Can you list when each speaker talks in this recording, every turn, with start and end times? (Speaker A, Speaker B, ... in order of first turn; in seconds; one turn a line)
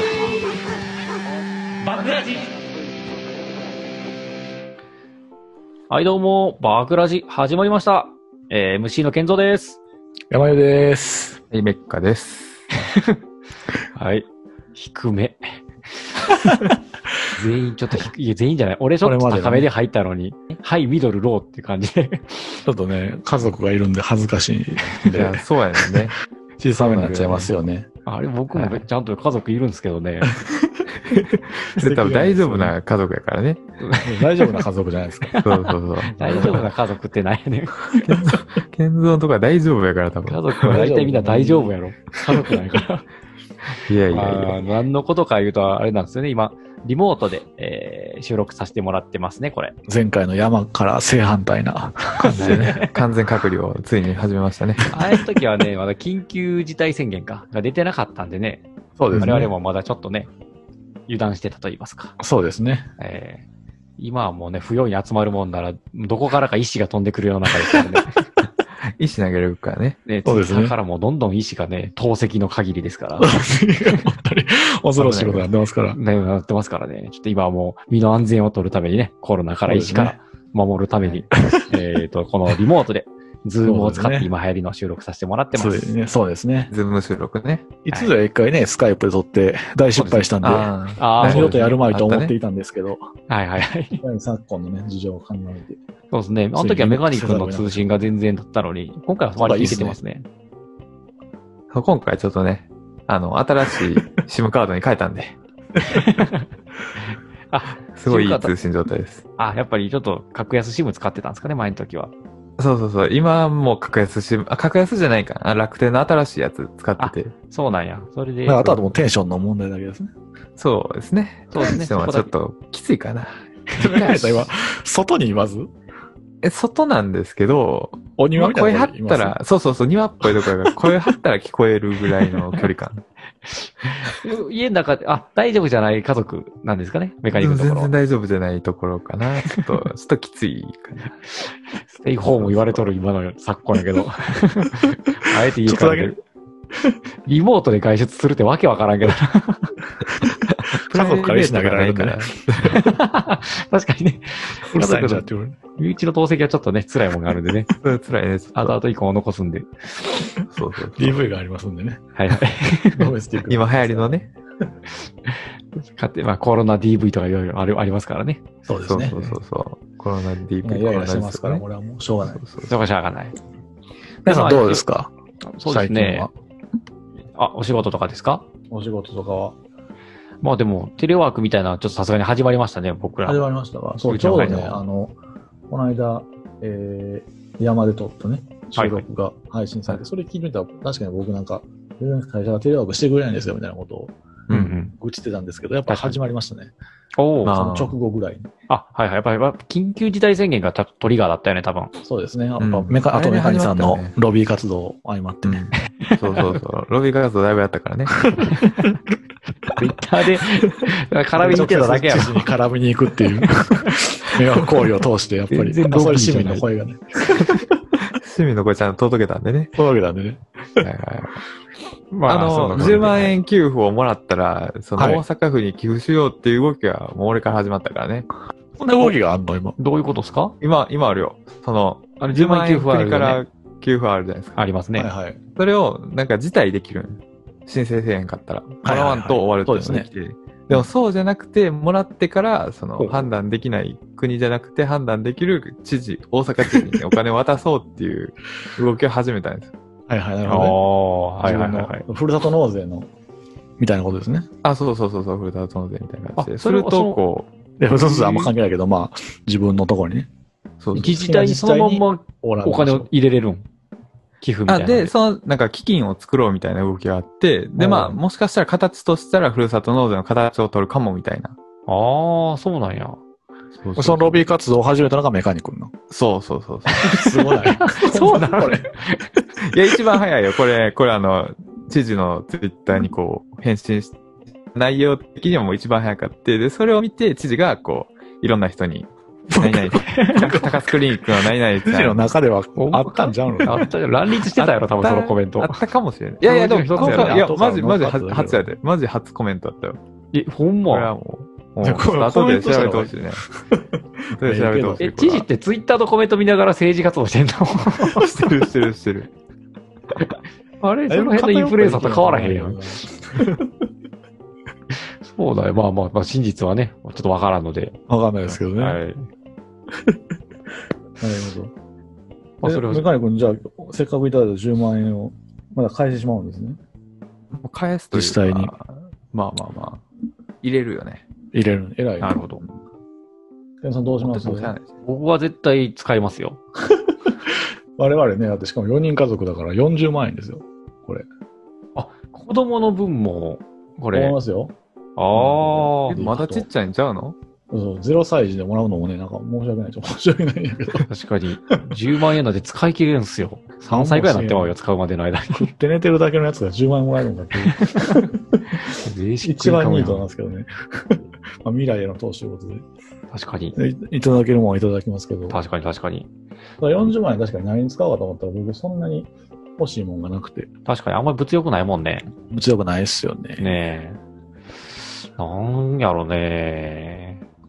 Speaker A: 1.8-2.5
Speaker A: 5.9-9.8
Speaker B: 10.3-11.4
Speaker C: 11.5-12.6
Speaker A: 12.9-13.2
Speaker A: 13.9-15.4
Speaker A: 17.3-22.6
Speaker B: 19.0-19.7
Speaker B: 22.6-26.1
Speaker C: 25.0-26.1
Speaker B: 26.6-27.9
Speaker C: 26.8-27.5
Speaker A: 28.1-30.3
Speaker C: 28.5-28.8
Speaker B: 30.3-32.7
Speaker C: 31.7-33.6
Speaker A: 33.8-34.6
Speaker B: 34.0-35.3
Speaker A: 35.2-37.8
Speaker C: 35.4-36.7
Speaker B: 36.2-36.7
Speaker B: 37.9-38.4
Speaker C: 38.0-40.8
Speaker A: 40.2-43.0
Speaker B: 40.6-41.8
Speaker C: 43.9-44.6
Speaker A: 44.1-49.7
Speaker B: 49.9-52.9
Speaker A: 52.2-52.9
Speaker C: 52.3-54.9
Speaker A: 54.9-60.3
Speaker B: 59.0-59.5
Speaker A: 61.1-62.1
Speaker B: 62.2-62.9
Speaker A: 63.0-63.5
Speaker A: 64.0-68.2
Speaker C: 69.0-70.0
Speaker A: 70.0-73.3
Speaker B: 70.2-70.8
Speaker B: 73.2-76.0
Speaker C: 75.0-75.5
Speaker A: 75.9-85.9
Speaker B: 79.6-80.2
Speaker B: 81.3-81.7
Speaker B: 83.6-84.3
Speaker B: 85.5-86.7
Speaker C: 86.7-87.7
Speaker B: 87.8-93.0
Speaker A: 89.9-90.3
Speaker C: 90.4-92.3
Speaker A: 91.0-91.7
Speaker A: 93.3-94.0
Speaker B: 94.0-95.8
Speaker A: 96.1-100.3
Speaker B: 96.5-98.0
Speaker B: 99.4-100.0
Speaker C: 101.7-105.4
Speaker A: 105.9-106.4
Speaker A: 107.5-108.5
Speaker C: 107.9-109.2
Speaker A: 109.4-112.1
Speaker C: 112.6-117.3
Speaker A: 117.0-118.8
Speaker B: 118.5-120.1
Speaker C: 120.6-123.4
Speaker A: 121.5-122.3
Speaker A: 123.7-124.5
Speaker B: 123.8-125.7
Speaker C: 126.4-133.0
Speaker B: 128.2-129.4
Speaker A: 132.3-132.7
Speaker A: 133.4-137.9
Speaker C: 137.3-141.1
Speaker A: 141.4-146.2
Speaker C: 142.2-142.9
Speaker B: 145.6-146.1
Speaker A: 147.2-149.8
Speaker C: 150.5-152.8
Speaker B: 150.8-152.4
Speaker A: 152.6-155.2
Speaker B: 154.7-155.6
Speaker A: 155.8-157.7
Speaker C: 157.8-158.8
Speaker A: 158.5-160.2
Speaker C: 160.5-161.2
Speaker B: 160.9-162.0
Speaker A: 162.2-163.1
Speaker B: 162.9-164.2
Speaker C: 163.5-164.3
Speaker A: 165.2-168.4
Speaker B: 168.7-169.1
Speaker C: 168.8-171.6
Speaker A: 169.0-169.4
Speaker B: 170.6-172.4
Speaker C: 172.3-172.7
Speaker A: 172.6-173.3
Speaker A: 174.2-174.8
Speaker B: 174.2-175.1
Speaker A: 175.4-176.3
Speaker B: 175.7-176.3
Speaker A: 177.3-178.4
Speaker B: 178.7-179.6
Speaker A: 180.4-183.4
Speaker B: 183.2-185.1
Speaker A: 184.0-184.8
Speaker B: 185.7-194.2
Speaker A: 188.7-189.0
Speaker A: 194.5-194.9
Speaker B: 194.9-196.7
Speaker A: 195.9-196.2
Speaker A: 197.2-197.6
Speaker C: 197.4-197.9
Speaker B: 197.5-198.5
Speaker A: 198.7-201.9
Speaker B: 202.0-205.6
Speaker C: 202.6-204.1
Speaker C: 205.4-208.3
Speaker B: 208.2-208.9
Speaker A: 208.5-208.9
Speaker A: 209.8-212.5
Speaker B: 211.4-217.7
Speaker A: 213.4-213.9
Speaker A: 215.5-216.7
Speaker C: 218.1-219.8
Speaker B: 219.7-220.8
Speaker C: 220.8-221.4
Speaker A: 222.1-223.4
Speaker C: 222.2-228.3
Speaker B: 225.0-225.2
Speaker B: 228.8-229.8
Speaker A: 229.8-230.5
Speaker C: 230.6-234.6
Speaker A: 232.2-233.4
Speaker A: 234.6-235.1
Speaker B: 234.9-235.4
Speaker C: 235.6-249.7
Speaker B: 238.8-240.1
Speaker A: 243.0-243.3
Speaker B: 246.7-247.0
Speaker B: 250.1-250.8
Speaker A: 250.4-252.0
Speaker B: 251.4-253.1
Speaker B: 253.8-254.4
Speaker C: 254.6-257.5
Speaker A: 256.4-257.2
Speaker B: 257.8-260.3
Speaker A: 257.9-258.5
Speaker C: 260.8-261.1
Speaker B: 260.9-263.1
Speaker A: 260.9-263.6
Speaker A: 264.4-265.1
Speaker C: 264.7-271.5
Speaker B: 267.8-268.2
Speaker A: 271.9-273.2
Speaker C: 273.8-274.4
Speaker B: 274.0-275.9
Speaker C: 276.1-277.0
Speaker A: 276.9-279.2
Speaker B: 277.1-278.9
Speaker C: 279.7-284.2
Speaker C: 284.7-292.3
Speaker B: 289.5-290.8
Speaker A: 290.0-290.5
Speaker B: 291.8-293.9
Speaker A: 292.8-295.8
Speaker C: 294.6-300.0
Speaker A: 296.4-297.4
Speaker B: 296.8-298.7
Speaker A: 300.3-301.1
Speaker C: 300.9-303.4
Speaker B: 301.8-303.8
Speaker C: 304.3-305.4
Speaker B: 304.4-305.0
Speaker A: 305.0-308.3
Speaker C: 308.2-309.3
Speaker A: 310.8-312.8
Speaker B: 311.1-313.7
Speaker A: 315.2-317.9
Speaker B: 318.1-319.0
Speaker A: 318.6-319.2
Speaker B: 321.2-321.7
Speaker A: 322.6-323.1
Speaker B: 322.6-326.8
Speaker C: 327.5-330.0
Speaker B: 328.1-328.7
Speaker C: 330.6-331.2
Speaker B: 331.5-332.4
Speaker A: 332.2-332.6
Speaker B: 333.8-334.7
Speaker C: 334.2-334.9
Speaker A: 335.0-336.6
Speaker B: 338.0-341.2
Speaker A: 341.9-344.4
Speaker B: 344.1-344.7
Speaker A: 345.2-346.2
Speaker B: 345.3-346.6
Speaker C: 346.1-347.4
Speaker B: 347.7-351.0
Speaker A: 351.1-355.7
Speaker B: 353.9-354.8
Speaker B: 355.5-362.8
Speaker A: 358.9-360.3
Speaker A: 363.3-363.8
Speaker B: 363.8-365.6
Speaker A: 365.5-366.3
Speaker B: 366.8-370.7
Speaker A: 370.9-372.3
Speaker B: 372.5-373.6
Speaker A: 373.6-374.2
Speaker A: 375.2-377.4